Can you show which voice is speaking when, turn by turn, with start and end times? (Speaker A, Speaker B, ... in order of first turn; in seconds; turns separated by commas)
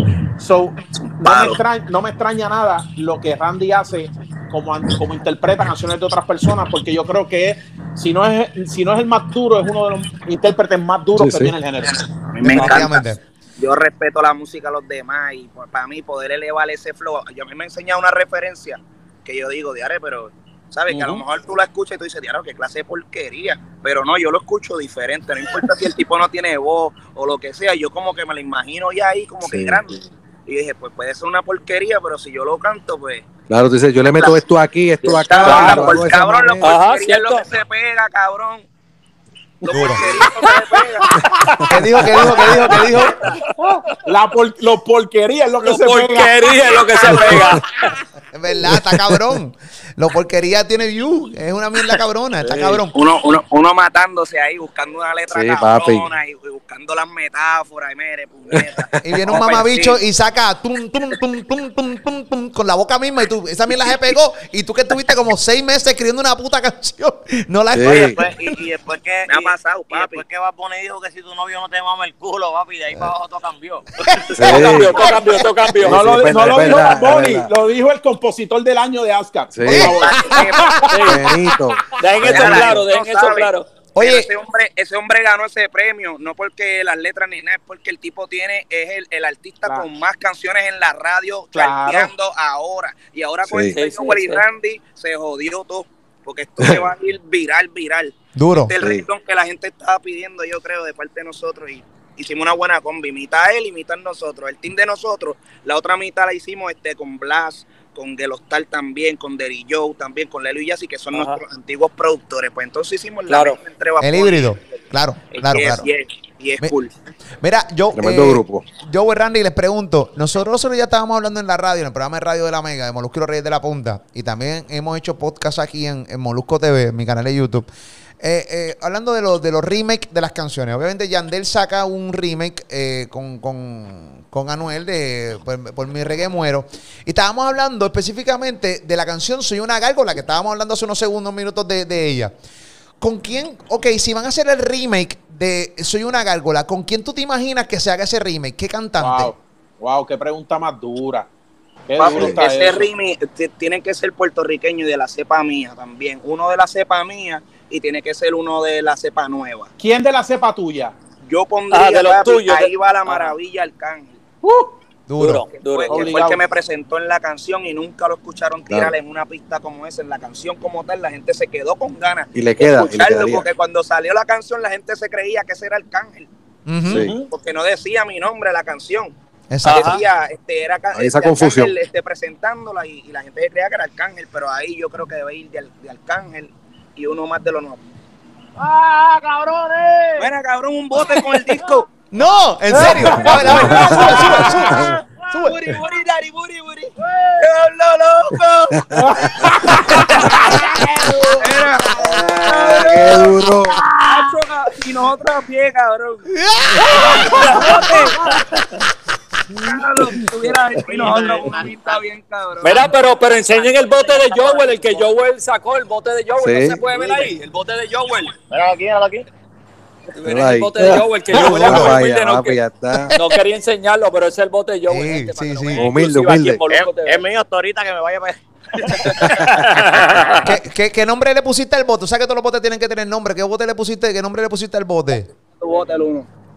Speaker A: 0.4-12.1, Speaker B: 0.9-1.6, Speaker C: 11.2-11.6, Speaker B: 12.2-33.2, Speaker D: 12.4-13.2, Speaker E: 12.5-12.9, Speaker A: 20.9-21.2, Speaker C: 29.4-30.0, Speaker C: 33.5-36.7, Speaker B: 35.0-38.7, Speaker A: 35.4-36.0, Speaker E: 36.6-37.4, Speaker B: 39.6-41.1, Speaker A: 39.7-40.2, Speaker D: 39.7-40.0, Speaker D: 41.7-43.2, Speaker E: 42.2-42.6, Speaker B: 42.8-43.4, Speaker A: 44.0-47.4, Speaker E: 45.6-47.6, Speaker B: 47.0-47.4, Speaker D: 48.3-52.9, Speaker C: 48.7-49.4, Speaker C: 52.4-52.8, Speaker B: 52.9-60.0, Speaker C: 55.3-56.1, Speaker D: 59.0-68.5, Speaker C: 67.7-68.2, Speaker F: 67.8-74.9, Speaker B: 69.3-70.2, Speaker D: 74.1-74.6, Speaker C: 74.4-74.9, Speaker E: 74.5-76.1, Speaker D: 75.2-75.7, Speaker C: 75.8-77.5, Speaker A: 75.8-81.0, Speaker C: 79.5-80.0, Speaker D: 79.7-81.1, Speaker B: 79.7-80.9, Speaker E: 80.9-81.2, Speaker C: 81.0-82.8, Speaker E: 82.0-83.7, Speaker B: 82.2-114.5, Speaker D: 83.9-84.3, Speaker A: 91.5-92.1, Speaker C: 93.5-93.8, Speaker E: 93.8-94.4, Speaker D: 98.3-98.7, Speaker C: 98.8-99.0, Speaker E: 111.1-111.4, Speaker E: 113.3-113.6, Speaker D: 114.0-115.9, Speaker B: 115.3-116.9, Speaker D: 117.4-127.7, Speaker C: 117.9-118.7, Speaker D: 128.2-142.3, Speaker D: 143.0-149.3, Speaker A: 149.0-151.3, Speaker A: 151.9-152.9, Speaker B: 152.0-159.7, Speaker A: 159.8-160.9, Speaker B: 161.2-164.2, Speaker E: 161.7-163.3, Speaker A: 164.4-164.7, Speaker D: 165.1-165.4, Speaker E: 165.2-166.2, Speaker B: 165.6-176.3, Speaker A: 165.9-166.4, Speaker C: 168.7-168.9, Speaker C: 172.3-173.5, Speaker D: 176.7-177.1, Speaker C: 176.9-177.2, Speaker A: 176.9-177.3, Speaker B: 177.3-179.1, Speaker D: 179.5-180.0, Speaker E: 179.6-180.0, Speaker B: 179.6-187.8, Speaker C: 180.9-181.7, Speaker F: 189.1-190.2, Speaker B: 190.2-191.9, Speaker D: 192.1-195.7, Speaker A: 192.7-193.9, Speaker C: 193.1-193.8, Speaker B: 193.2-198.7, Speaker C: 198.7-199.0, Speaker A: 198.9-201.4, Speaker B: 201.4-203.3, Speaker C: 202.0-203.8, Speaker B: 203.9-208.2, Speaker D: 206.3-207.6, Speaker E: 207.2-208.4, Speaker B: 209.6-215.1, Speaker F: 210.8-212.0, Speaker E: 212.6-218.3, Speaker C: 216.4-216.8, Speaker F: 216.9-217.3, Speaker F: 218.5-219.2, Speaker E: 220.2-222.6, Speaker C: 220.2-223.1, Speaker D: 221.3-221.9, Speaker D: 222.9-223.4, Speaker E: 223.1-227.2, Speaker D: 224.8-225.9, Speaker C: 225.8-226.6, Speaker F: 226.7-230.4, Speaker B: 228.8-229.3, Speaker E: 229.1-230.4, Speaker D: 230.4-235.3, Speaker B: 235.5-236.3